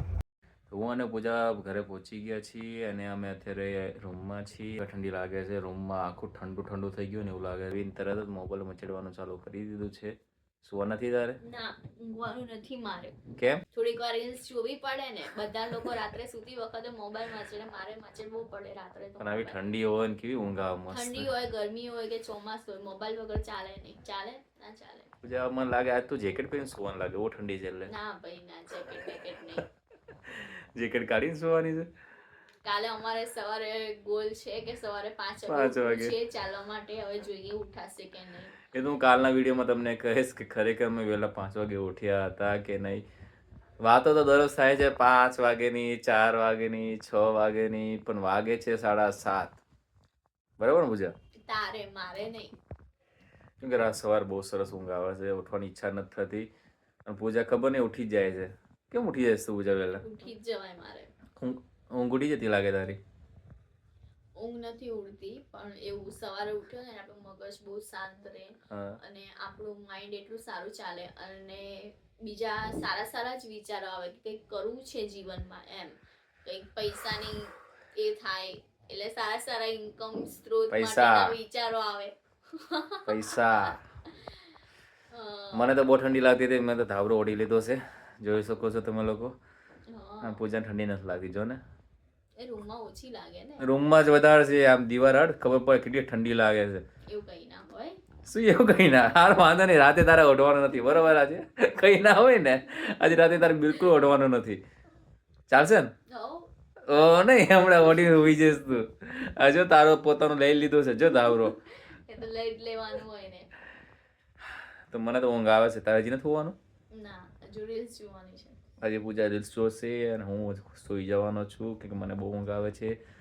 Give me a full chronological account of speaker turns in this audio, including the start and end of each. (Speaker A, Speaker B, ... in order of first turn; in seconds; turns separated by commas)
Speaker A: 0.7-11.4, Speaker B: 11.4-13.2, Speaker A: 13.3-13.6, Speaker B: 13.7-19.6, Speaker A: 19.2-21.3, Speaker B: 20.9-25.1, Speaker A: 25.2-27.9, Speaker B: 27.9-29.6, Speaker A: 30.3-31.9, Speaker B: 32.6-38.6, Speaker A: 35.5-36.1, Speaker A: 38.7-43.0, Speaker A: 43.8-49.6, Speaker A: 50.6-51.1, Speaker B: 51.5-52.6, Speaker A: 53.6-56.5, Speaker A: 57.0-60.0, Speaker B: 60.0-61.1, Speaker A: 61.4-63.0, Speaker B: 64.4-84.4, Speaker A: 68.7-69.0, Speaker A: 80.7-81.3, Speaker A: 83.1-83.8, Speaker B: 85.1-85.8, Speaker A: 85.5-89.3, Speaker B: 89.9-90.4, Speaker A: 90.2-91.6, Speaker B: 92.4-93.7, Speaker A: 93.6-96.8, Speaker B: 97.1-98.0, Speaker A: 98.3-104.6, Speaker B: 103.5-103.9, Speaker A: 105.5-105.9, Speaker B: 106.1-106.5, Speaker A: 106.9-111.5, Speaker B: 111.3-113.5, Speaker A: 114.9-116.6, Speaker B: 116.9-118.6, Speaker A: 118.8-123.0